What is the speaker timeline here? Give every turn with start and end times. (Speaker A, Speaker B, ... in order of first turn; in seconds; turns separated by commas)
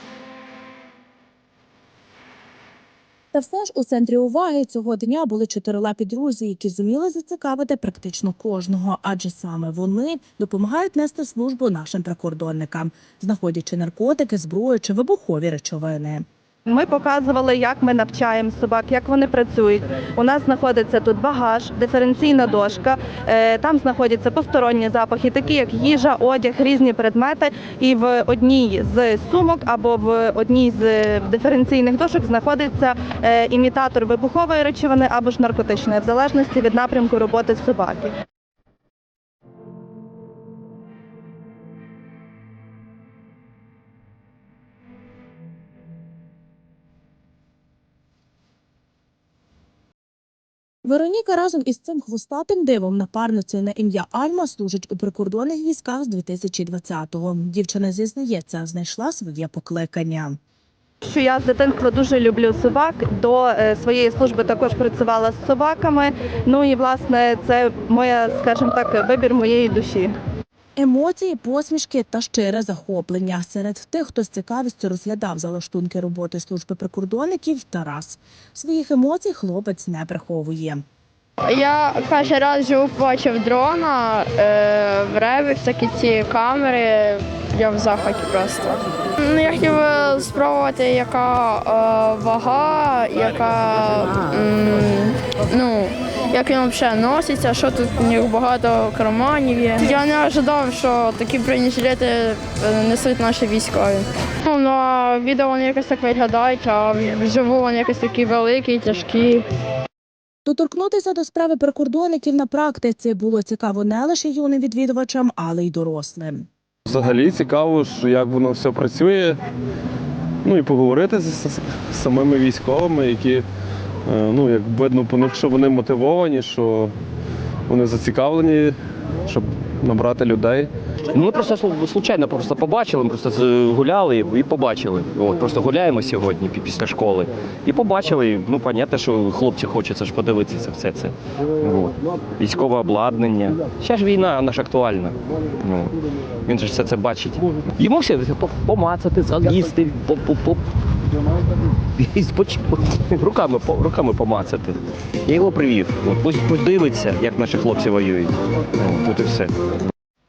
Speaker A: 3.3-16.2, Speaker B: 16.6-38.1, Speaker A: 50.8-60.4, Speaker B: 61.0-70.1, Speaker A: 70.8-80.8, Speaker C: 81.5-109.4, Speaker A: 110.4-116.5, Speaker D: 116.9-119.4, Speaker D: 120.4-123.5, Speaker D: 124.1-126.9, Speaker D: 127.7-128.8, Speaker D: 129.3-130.7, Speaker E: 131.1-145.9, Speaker E: 146.4-150.6, Speaker E: 152.0-159.6